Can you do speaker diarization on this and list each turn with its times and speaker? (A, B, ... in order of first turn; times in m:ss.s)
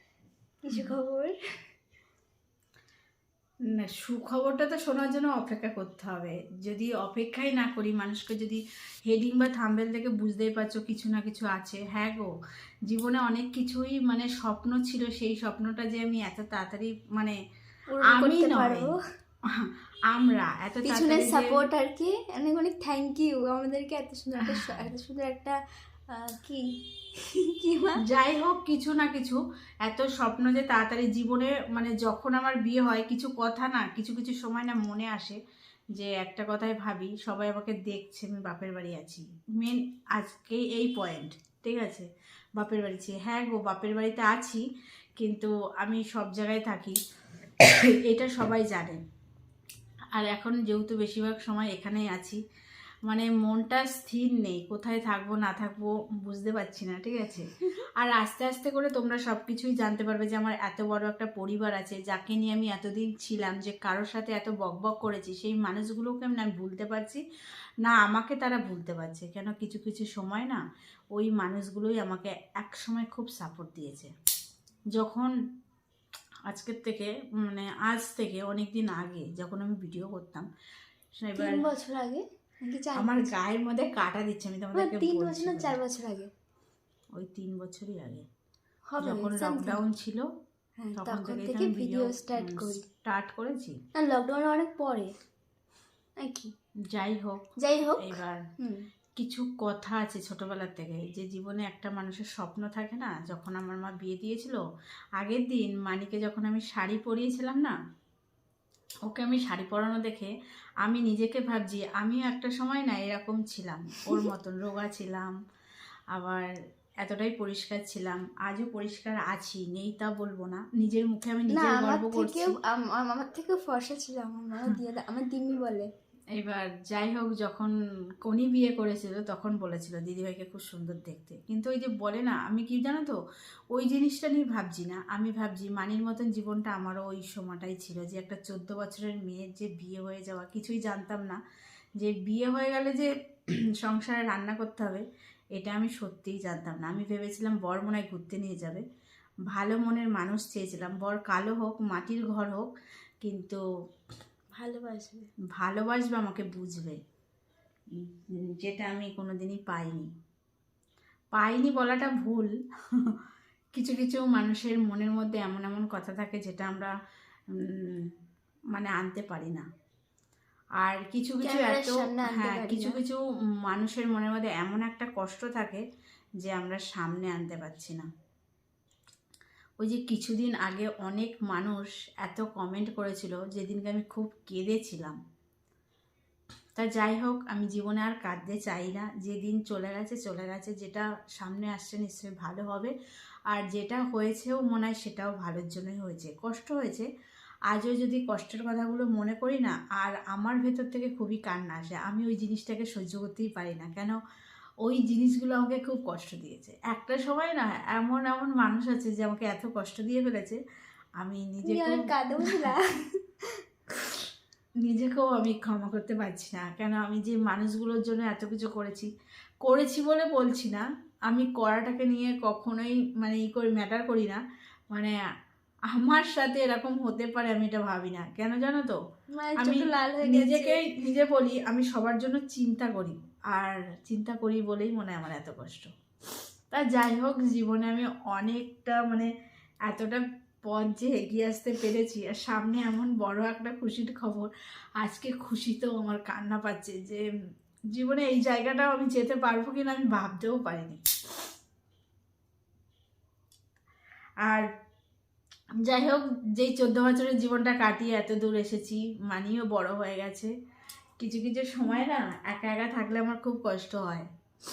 0:00.6-0:01.3 A
0:03.7-0:12.3 B
0:12.9-0:17.4 B
0:17.9-0:18.9 A
0:18.0-0:18.9 B
0:19.6-0:21.6 B
0:20.8-0:25.6 A
0:24.5-0:24.7 B
0:26.1-0:26.6 A
0:27.2-0:28.0 A
0:28.0-0:35.4 B
0:36.0-0:44.6 B
0:45.2-0:47.0 B
0:47.6-0:49.0 B
0:50.1-0:52.4 B
0:53.1-1:07.2 B
1:07.8-1:10.6 B
1:11.1-1:14.1 B
1:14.9-1:15.3 B
1:16.5-1:20.5 B
1:21.2-1:21.6 B
1:21.4-1:23.3 A
1:23.0-1:25.8 B
1:24.7-1:26.3 A
1:27.2-1:28.3 B
1:28.9-1:29.8 A
1:29.0-1:30.2 B
1:30.8-1:32.8 A
1:31.0-1:33.8 B
1:34.0-1:35.1 A
1:36.2-1:36.5 A
1:36.9-1:37.4 B
1:37.6-1:38.8 A
1:38.0-1:38.4 B
1:39.2-1:44.6 B
1:45.2-1:47.7 B
1:49.0-1:50.3 B
1:50.8-1:55.3 B
1:56.1-1:56.5 B
1:57.0-2:02.6 B
2:01.5-2:05.9 A
2:06.4-2:13.2 B
2:13.7-2:21.4 B
2:22.0-2:23.1 B
2:23.8-2:25.0 B
2:25.6-2:28.8 B
2:29.5-2:32.7 B
2:33.2-2:33.6 B
2:34.6-2:35.3 A
2:35.5-2:37.0 B
2:37.9-2:40.1 B
2:41.3-2:43.2 B
2:43.7-2:46.9 B
2:47.5-2:48.1 B
2:48.7-2:49.6 B
2:50.8-2:55.8 B
2:51.4-2:53.0 A
2:56.4-2:58.1 B
2:59.8-3:05.2 B
3:06.8-3:12.9 B
3:13.5-3:17.1 B
3:17.7-3:24.2 B
3:24.8-3:30.6 B
3:31.2-3:32.7 B
3:31.6-3:33.6 A
3:34.8-3:39.1 B
3:39.6-3:44.4 B
3:45.9-3:49.0 B
3:49.4-3:50.8 A
3:49.6-3:55.9 B
3:56.7-3:59.3 B
3:59.9-4:07.2 B
4:07.9-4:11.0 B
4:15.8-4:20.5 B
4:21.2-4:24.3 B